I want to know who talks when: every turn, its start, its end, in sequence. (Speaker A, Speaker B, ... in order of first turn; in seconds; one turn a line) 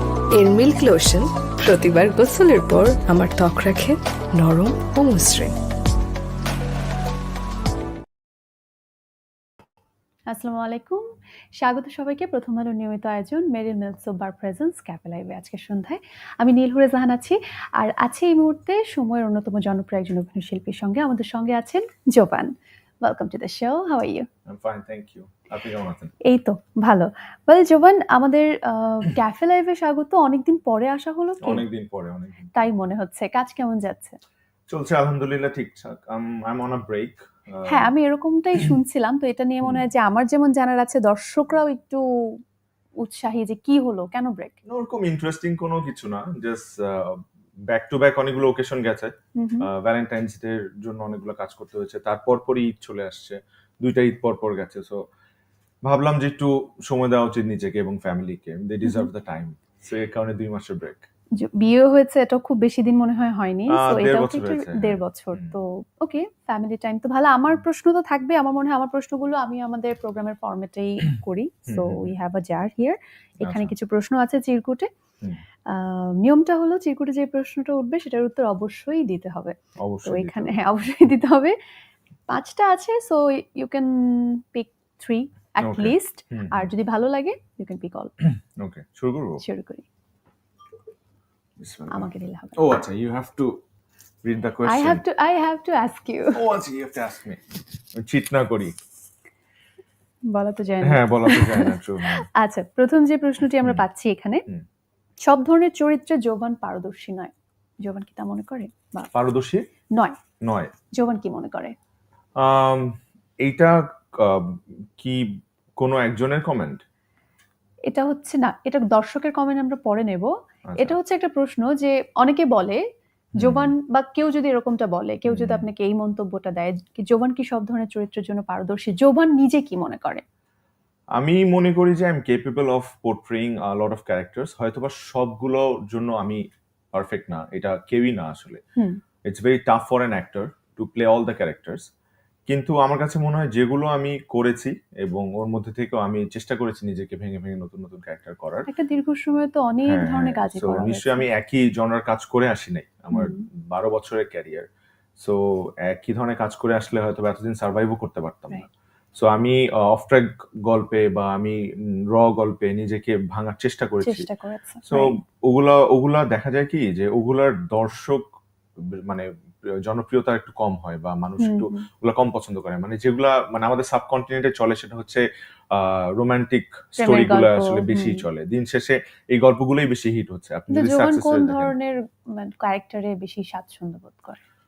Speaker A: 0.3-5.5
Speaker B: 10.3-11.1
Speaker B: 11.6-22.5
Speaker B: 23.0-24.3
Speaker C: 24.5-26.1
Speaker B: 26.3-31.7
Speaker C: 31.4-32.7
Speaker B: 32.5-34.2
Speaker C: 34.7-37.9
Speaker B: 37.7-42.0
Speaker B: 43.0-44.6
Speaker C: 44.7-55.0
Speaker B: 49.4-49.7
Speaker C: 55.9-61.1
Speaker B: 61.4-74.9
Speaker C: 63.7-65.6
Speaker C: 71.7-72.1
Speaker C: 73.4-73.7
Speaker B: 75.7-79.5
Speaker C: 79.8-80.6
Speaker B: 80.1-81.5
Speaker B: 82.3-88.1
Speaker C: 85.6-86.7
Speaker C: 88.6-89.4
Speaker B: 89.4-89.9
Speaker C: 91.6-93.6
Speaker B: 91.9-92.6
Speaker C: 94.2-95.0
Speaker B: 94.6-96.4
Speaker C: 96.3-97.4
Speaker C: 98.0-98.8
Speaker B: 100.3-101.8
Speaker C: 100.8-102.3
Speaker B: 102.4-104.5
Speaker B: 105.2-107.3
Speaker B: 107.8-109.1
Speaker C: 109.1-109.6
Speaker B: 110.0-110.2
Speaker C: 110.4-110.7
Speaker B: 110.9-111.7
Speaker C: 112.4-115.3
Speaker C: 115.8-116.8
Speaker B: 117.9-122.8
Speaker C: 120.7-121.0
Speaker B: 123.4-130.2
Speaker C: 123.4-123.8
Speaker C: 125.3-125.7
Speaker C: 131.2-138.6
Speaker C: 139.3-141.9
Speaker C: 142.5-148.7
Speaker B: 148.7-151.3
Speaker C: 149.9-154.7
Speaker B: 153.1-153.4
Speaker C: 155.2-158.7
Speaker C: 159.2-161.6
Speaker C: 162.1-164.3
Speaker B: 164.0-165.2
Speaker C: 164.8-168.3
Speaker C: 168.9-169.3
Speaker C: 169.9-181.7
Speaker B: 171.4-171.9
Speaker B: 177.0-178.3
Speaker B: 180.7-184.4